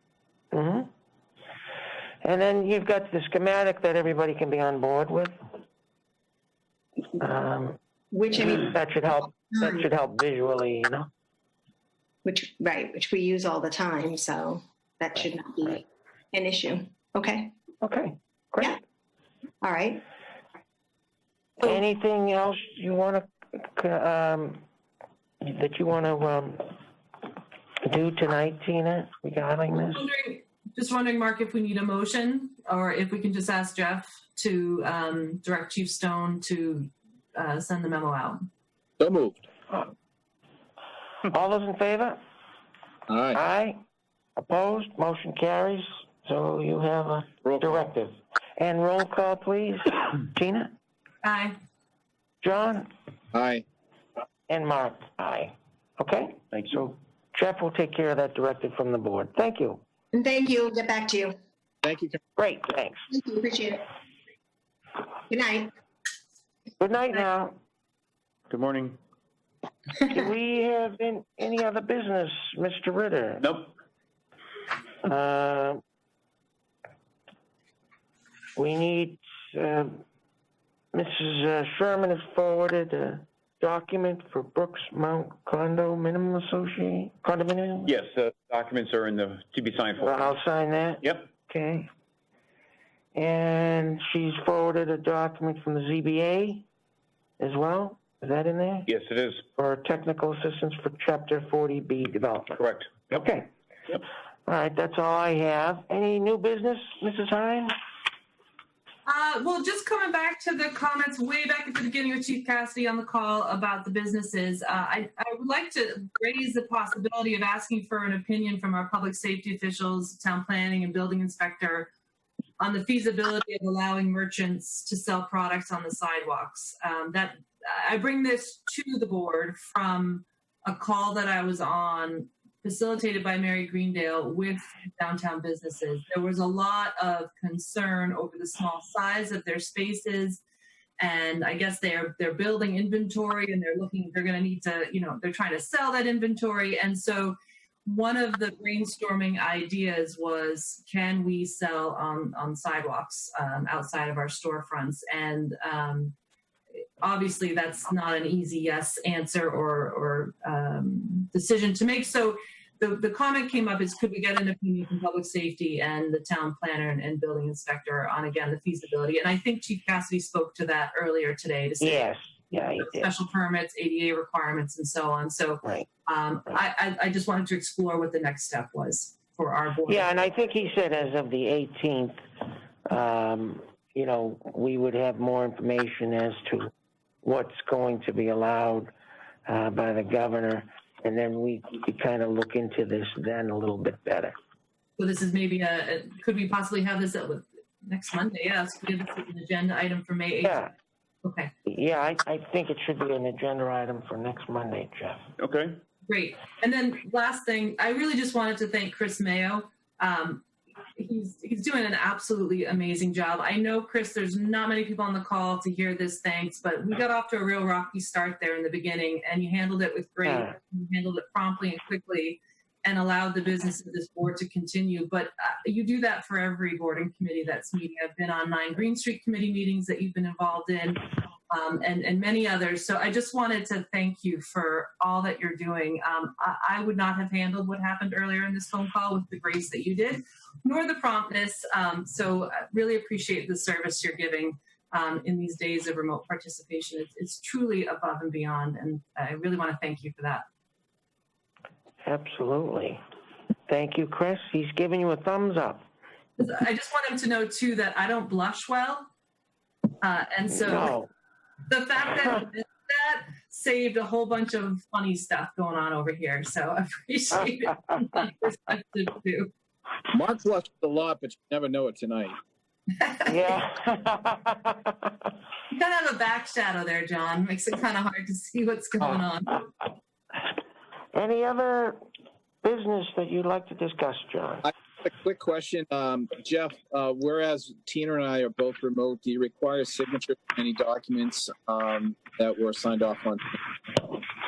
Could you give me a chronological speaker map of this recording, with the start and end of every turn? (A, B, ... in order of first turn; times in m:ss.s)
0:00.5-0:00.9 A
0:02.2-0:05.3 A
0:07.2-0:07.8 A
0:08.1-0:08.7 B
0:08.3-0:11.1 A
0:09.5-0:09.8 B
0:12.2-0:17.5 B
0:17.8-0:18.8 A
0:19.6-0:20.0 B
0:21.6-0:24.6 A
0:25.4-0:26.7 A
0:27.8-0:30.0 A
0:29.9-0:38.4 C
0:39.0-0:39.4 D
0:41.3-0:42.2 A
0:43.1-0:43.4 D
0:43.3-0:43.8 A
0:44.4-0:50.7 A
0:47.4-0:47.8 E
0:51.2-0:51.6 C
0:52.4-0:52.9 A
0:53.3-0:53.6 D
0:54.5-0:59.8 A
1:00.1-1:01.3 B
1:01.8-1:02.2 D
1:02.4-1:03.0 A
1:03.1-1:03.8 B
1:05.3-1:05.7 B
1:06.8-1:07.5 A
1:08.5-1:09.0 E
1:10.0-1:13.4 A
1:13.4-1:13.7 E
1:15.0-1:15.8 A
1:18.6-1:20.0 A
1:20.9-1:27.9 A
1:27.8-1:30.4 E
1:30.0-1:31.9 A
1:33.1-1:36.6 A
1:37.4-1:38.9 A
1:38.8-1:39.4 E
1:39.6-1:43.5 A
1:42.5-1:43.1 E
1:44.4-1:47.7 A
1:49.0-2:01.9 C
2:02.6-2:20.4 C
2:21.0-2:36.1 C
2:37.0-2:52.1 C
2:51.8-2:53.1 A
2:52.8-3:00.1 C
2:59.9-3:02.2 A
3:02.8-3:06.7 A
3:07.2-3:08.9 A
3:09.4-3:14.4 A
3:15.0-3:20.7 C
3:20.4-3:20.7 A
3:21.2-3:21.5 C
3:21.6-3:25.3 A
3:25.4-3:25.8 E
3:26.1-4:10.4 C
3:40.2-3:40.5 A
4:12.0-4:13.0 A
4:13.7-4:15.8 A
4:16.4-4:19.1 C
4:20.0-4:20.9 C
4:20.6-4:21.1 A
4:21.7-4:29.5 C
4:30.1-4:32.4 D
4:33.0-4:33.6 C
4:33.2-4:35.1 A
4:35.7-4:39.7 C
4:41.1-4:42.0 A
4:42.6-4:44.7 A
4:44.6-4:54.1 D